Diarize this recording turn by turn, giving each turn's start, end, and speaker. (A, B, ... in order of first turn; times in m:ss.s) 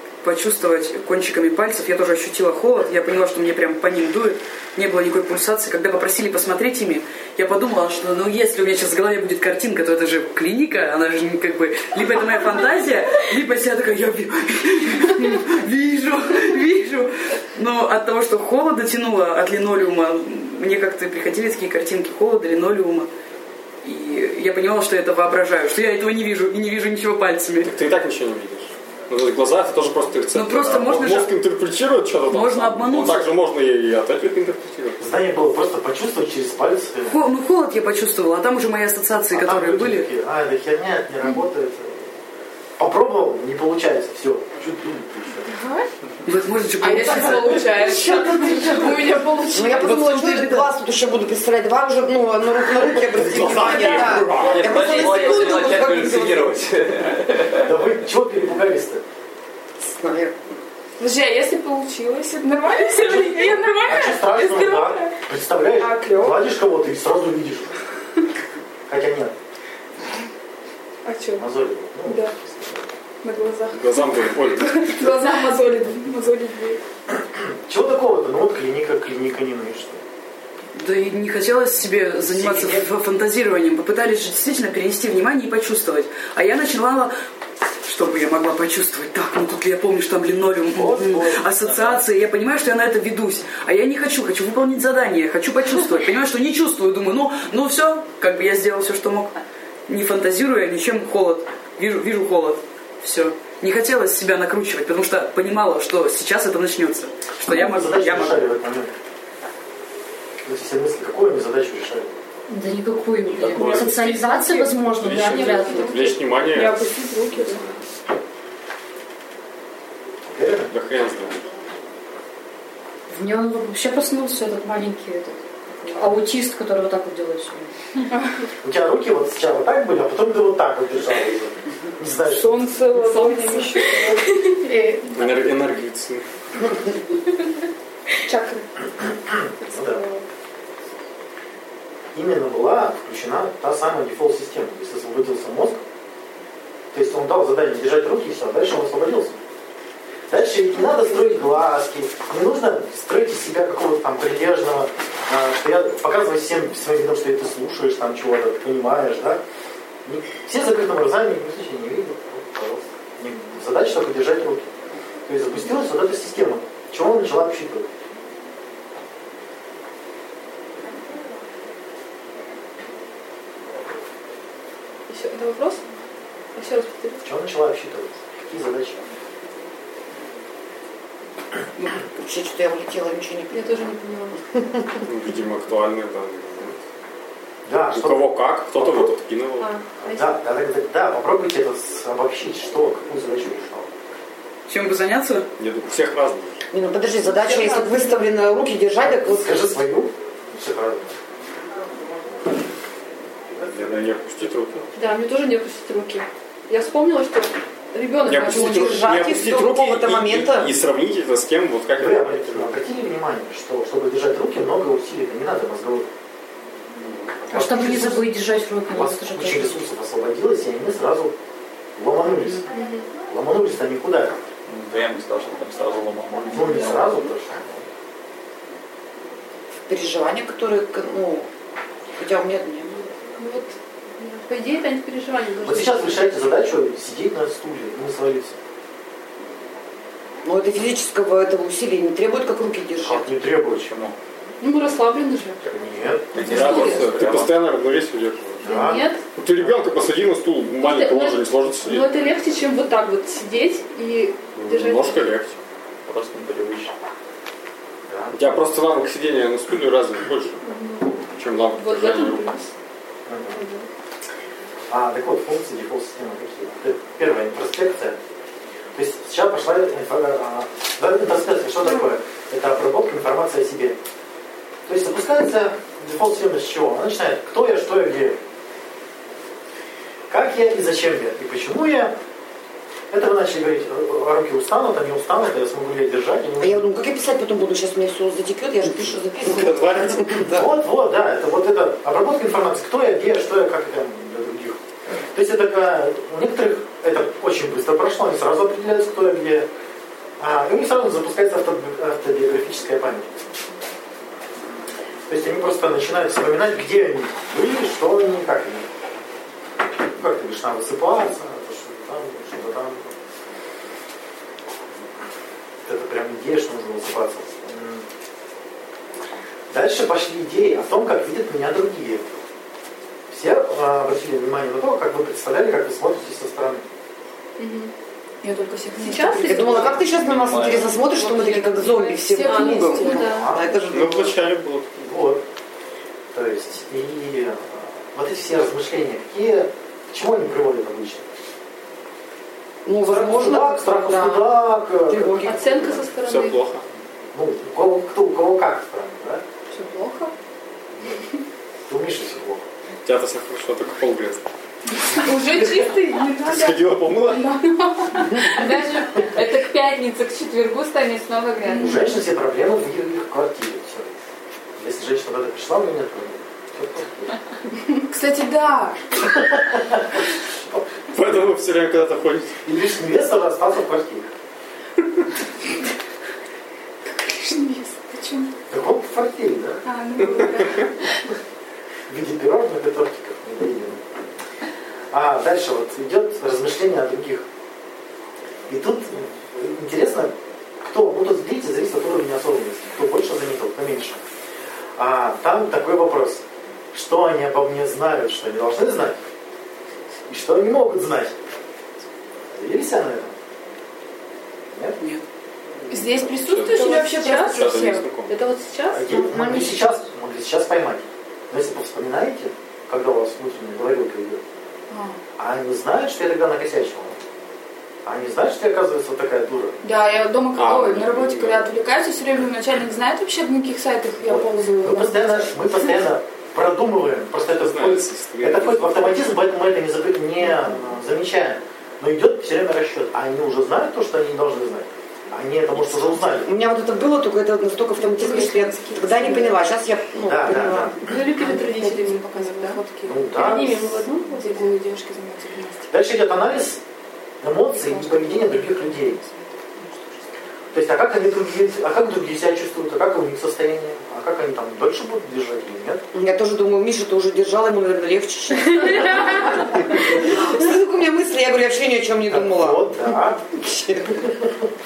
0:00.2-0:23.1 A
0:23.8-0:27.7 A
0:27.6-0:35.0 B
0:30.3-0:31.3 A
0:32.3-0:33.3 A
0:35.0-0:37.2 C
0:37.1-0:40.1 A
0:39.3-0:42.1 C
0:42.8-0:45.6 C
0:45.5-0:45.9 D
0:46.2-0:47.9 A
0:46.8-0:50.6 D
0:48.2-0:48.7 C
0:49.5-0:56.6 E
0:52.9-0:55.2 B
0:53.8-0:57.7 F
0:57.6-0:59.0 C
0:59.8-1:00.4 E
1:01.0-1:05.2 D
1:03.0-1:07.7 C
1:05.8-1:06.4 D
1:08.9-1:09.4 C
1:11.0-1:11.4 D
1:11.4-1:12.9 C
1:12.0-1:12.4 D
1:13.2-1:16.8 D
1:13.7-1:15.1 B
1:17.7-1:20.0 C
1:20.7-1:27.1 A
1:22.2-1:22.8 C
1:27.8-1:39.3 A
1:30.7-1:31.9 C
1:39.9-1:48.4 A
1:47.5-1:48.9 C
1:50.4-1:52.1 C
1:52.5-1:56.1 G
1:53.3-1:54.1 F
1:53.5-1:57.6 D
1:55.0-1:56.9 B
1:57.4-1:57.8 C
2:00.2-2:00.7 C
2:00.7-2:01.4 B
2:03.1-2:07.7 G
2:08.6-2:12.7 C
2:12.3-2:14.6 D
2:12.9-2:13.9 H
2:14.5-2:15.3 G
2:15.1-2:16.2 B
2:18.3-2:18.6 D
2:19.0-2:20.0 C
2:19.6-2:20.2 D
2:22.1-2:25.8 C
2:26.9-2:29.4 C
2:30.3-2:39.4 C
2:40.0-2:44.7 C
2:45.3-2:47.9 C
2:55.1-2:55.8 H
2:56.6-2:57.2 H
2:57.2-2:59.0 C
3:01.8-3:03.8 E
3:03.5-3:04.4 H
3:05.1-3:06.8 B
3:07.7-3:09.2 C
3:07.9-3:09.7 B
3:09.6-3:10.4 H
3:10.0-3:13.9 C
3:14.7-3:15.5 A
3:15.6-3:16.6 B
3:16.7-3:19.8 E
3:17.3-3:18.2 H
3:19.0-3:21.1 C
3:23.5-3:23.9 C
3:23.6-3:24.9 B
3:25.0-3:29.2 H
3:28.2-3:32.8 B
3:28.3-3:30.7 E
3:32.0-3:36.1 C
3:37.0-3:37.4 B
3:37.5-3:38.3 C
3:37.5-3:39.8 G
3:38.9-3:41.3 C
3:42.0-3:42.7 C
3:42.7-3:43.1 H
3:43.3-3:44.4 C
3:44.7-3:47.2 F
3:46.5-3:47.8 C
3:46.6-3:47.0 H
3:49.9-3:51.5 E
3:52.2-3:53.1 E
3:53.4-3:56.2 H
3:55.6-3:58.6 C
4:00.4-4:03.3 E
4:03.0-4:03.9 C
4:03.9-4:04.2 F
4:04.6-4:05.6 H
4:05.6-4:06.3 C
4:06.3-4:07.6 F
4:06.3-4:08.7 B
4:06.4-4:07.1 H
4:08.6-4:09.1 C
4:08.6-4:09.2 H
4:09.4-4:12.1 B
4:10.8-4:15.4 H
4:14.6-4:15.6 B
4:16.1-4:16.9 F
4:18.0-4:18.6 C
4:18.3-4:20.6 B
4:20.6-4:21.2 H
4:21.3-4:22.5 B
4:21.7-4:22.7 H
4:23.3-4:23.6 C
4:23.5-4:23.9 H
4:24.9-4:28.2 C
4:29.0-4:34.0 C
4:34.9-4:38.4 C
4:40.3-4:42.2 C
4:43.1-4:46.9 C
4:46.6-4:50.6 E
4:49.5-4:50.4 B
4:50.4-4:54.8 C
4:55.3-4:59.7 C
5:00.4-5:03.3 C
5:05.3-5:08.9 C
5:10.2-5:13.1 C
5:15.8-5:18.0 C
5:19.7-5:22.4 C
5:23.3-5:26.8 C
5:27.6-5:27.9 H
5:28.4-5:30.1 D
5:29.0-5:30.1 H
5:29.5-5:34.3 E
5:30.1-5:31.0 F
5:31.1-5:33.4 D
5:32.4-5:33.5 H
5:33.2-5:33.8 C
5:33.9-5:35.0 B
5:35.0-5:35.4 C
5:36.3-5:41.2 C
5:42.8-5:45.6 E
5:43.0-5:46.0 C
5:45.4-5:46.6 H
5:46.2-5:46.8 B
5:47.3-5:49.4 C
5:49.7-5:50.3 D
5:50.9-5:51.2 C
5:51.9-5:52.6 C
5:53.0-5:54.4 B
5:55.2-5:58.3 D
5:56.4-5:57.6 B
5:58.3-6:02.1 I
6:01.6-6:02.0 D
6:01.8-6:04.1 C
6:04.8-6:07.4 C
6:08.1-6:09.0 D
6:09.5-6:10.1 C
6:11.1-6:12.6 B
6:12.6-6:14.3 C
6:17.1-6:18.5 D
6:18.7-6:19.8 C
6:19.8-6:21.2 D
6:22.1-6:24.0 C
6:25.1-6:27.4 C
6:28.7-6:34.2 C
6:35.0-6:39.2 C
6:40.3-6:41.3 C
6:42.5-6:43.4 C
6:44.7-6:45.0 C
6:45.8-6:48.3 B
6:45.9-6:48.2 D
6:46.7-6:47.6 H
6:48.3-6:49.3 H
6:48.9-6:54.4 C
6:49.2-6:50.0 G
6:54.9-6:55.2 D
6:55.4-6:57.2 C
6:58.0-6:59.8 C
6:59.8-7:05.6 D
7:00.5-7:01.7 B
7:04.2-7:16.5 C
7:07.5-7:09.2 B
7:16.4-7:21.0 E
7:18.0-7:19.6 D
7:20.2-7:21.0 C
7:21.0-7:22.8 H
7:21.1-7:25.9 D
7:23.0-7:23.8 C
7:23.4-7:24.7 H
7:25.9-7:26.8 C
7:27.4-7:29.2 C
7:27.7-7:30.2 D
7:30.7-7:36.0 C
7:36.1-7:44.4 E
7:42.3-7:43.4 C